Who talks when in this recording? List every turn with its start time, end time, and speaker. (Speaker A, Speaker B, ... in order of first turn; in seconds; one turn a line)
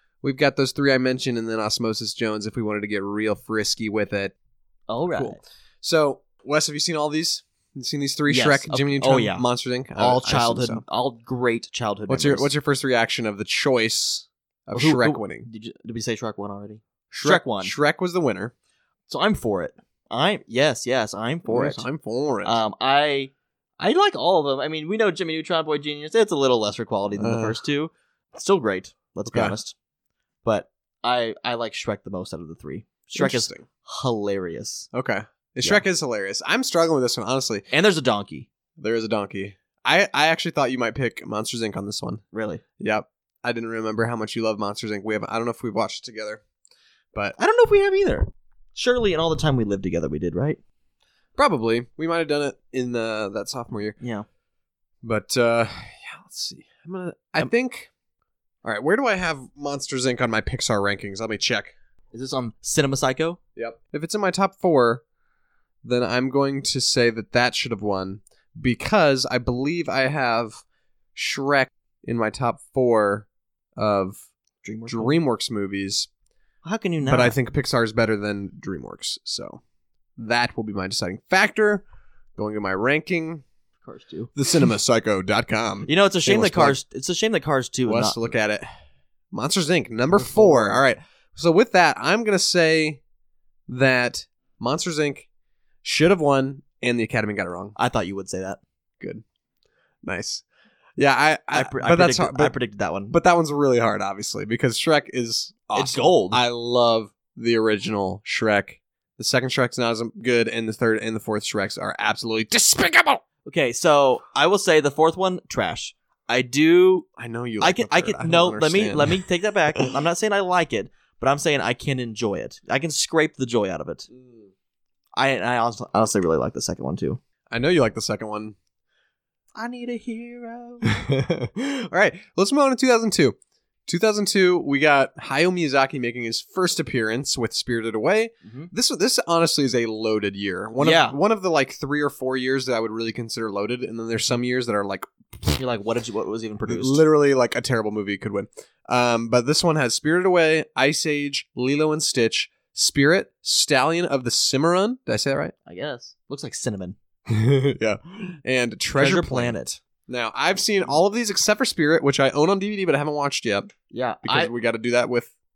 Speaker A: 0.2-4.3
Speaker B: 4.9-5.4
Speaker A: 5.1-10.8
Speaker B: 8.3-9.4
Speaker B: 9.9-12.5
Speaker A: 12.1-15.5
Speaker B: 14.7-17.7
Speaker A: 17.1-18.5
Speaker B: 19.1-21.8
Speaker A: 21.4-22.6
Speaker B: 22.4-29.7
Speaker A: 27.2-27.6
Speaker A: 29.3-29.6
Speaker B: 30.4-34.9
Speaker A: 33.1-33.6
Speaker A: 34.9-37.7
Speaker B: 37.7-38.5
Speaker A: 38.8-42.2
Speaker B: 42.3-42.6
Speaker A: 42.8-46.4
Speaker B: 47.4-50.6
Speaker A: 51.4-54.0
Speaker B: 54.0-54.2
Speaker A: 55.0-57.9
Speaker A: 58.6-61.7
Speaker B: 62.1-63.4
Speaker A: 63.5-65.0
Speaker A: 65.8-70.6
Speaker A: 71.1-74.3
Speaker B: 74.6-75.2
Speaker A: 74.8-76.1
Speaker B: 76.6-77.3
Speaker A: 77.0-79.6
Speaker A: 80.2-81.8
Speaker A: 82.3-83.4
Speaker B: 83.8-84.3
Speaker A: 84.3-86.8
Speaker B: 85.9-88.3
Speaker A: 87.8-88.7
Speaker A: 89.3-93.0
Speaker B: 90.1-90.8
Speaker A: 93.7-95.3
Speaker A: 95.8-97.8
Speaker B: 97.8-98.6
Speaker A: 100.0-100.4
Speaker A: 101.0-102.5
Speaker B: 101.5-103.1
Speaker A: 103.1-113.2
Speaker B: 105.7-106.4
Speaker B: 113.4-117.1
Speaker A: 117.2-119.9
Speaker B: 117.6-124.1
Speaker A: 124.1-124.5
Speaker B: 125.1-127.2
Speaker A: 127.5-128.6
Speaker B: 129.5-130.8
Speaker A: 130.8-133.3
Speaker A: 133.9-145.6
Speaker B: 138.4-138.7
Speaker B: 140.8-141.2
Speaker B: 145.6-147.0
Speaker A: 146.7-155.5
Speaker B: 155.7-157.0
Speaker A: 157.3-165.3
Speaker B: 158.9-159.8
Speaker B: 163.9-164.5